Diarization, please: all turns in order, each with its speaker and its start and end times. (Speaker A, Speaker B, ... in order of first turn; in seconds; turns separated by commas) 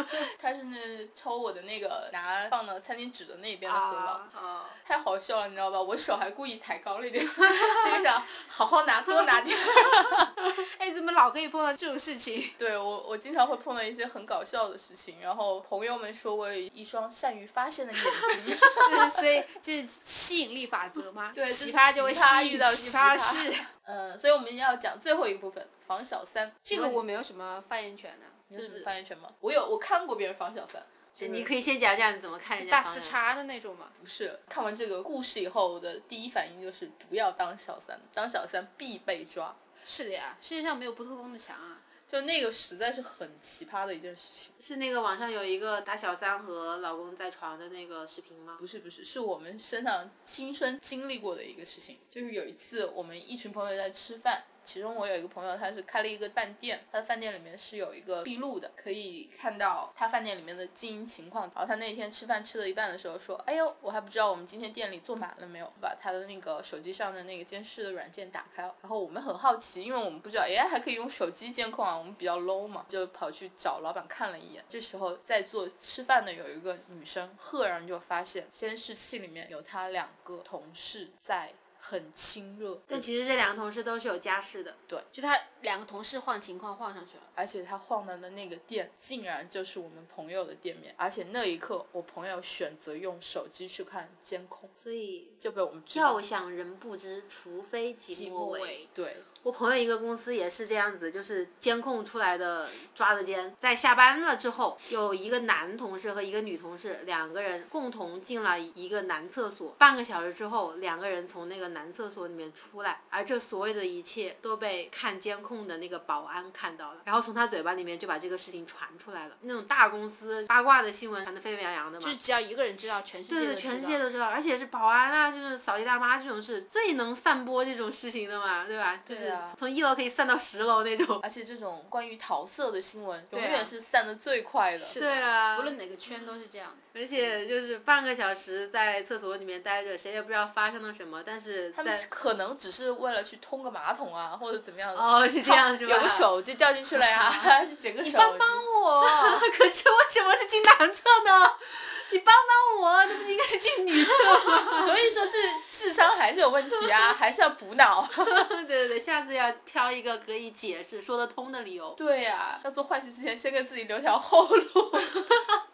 Speaker A: 0.1-4.2, Speaker B: 3.6-4.8, Speaker A: 4.8-10.3, Speaker B: 10.4-12.6, Speaker A: 12.6-19.2, Speaker B: 18.8-23.7, Speaker A: 21.3-27.0, Speaker B: 26.7-28.4, Speaker A: 28.5-31.6, Speaker C: 28.6-28.9, Speaker C: 31.2-33.2, Speaker B: 32.6-34.0, Speaker A: 34.0-39.6, Speaker B: 39.8-41.8, Speaker A: 42.1-44.5, Speaker C: 44.6-48.6, Speaker A: 48.6-83.1, Speaker C: 82.9-84.8, Speaker B: 85.1-87.3, Speaker A: 87.4-94.7, Speaker C: 94.8-95.4, Speaker A: 95.4-96.2, Speaker C: 95.9-98.8, Speaker B: 98.1-98.9, Speaker A: 98.9-99.3, Speaker C: 99.4-122.2, Speaker B: 122.0-124.0, Speaker C: 123.3-131.2, Speaker A: 129.1-129.6, Speaker A: 131.2-135.0, Speaker B: 133.3-133.7, Speaker B: 134.8-136.9, Speaker C: 134.9-135.7, Speaker C: 136.9-142.1, Speaker A: 141.7-148.7, Speaker C: 144.9-146.3, Speaker C: 147.0-147.5, Speaker B: 148.0-149.5, Speaker C: 149.0-155.0, Speaker A: 154.8-158.4, Speaker C: 156.8-157.1, Speaker C: 158.2-162.0, Speaker A: 162.0-165.3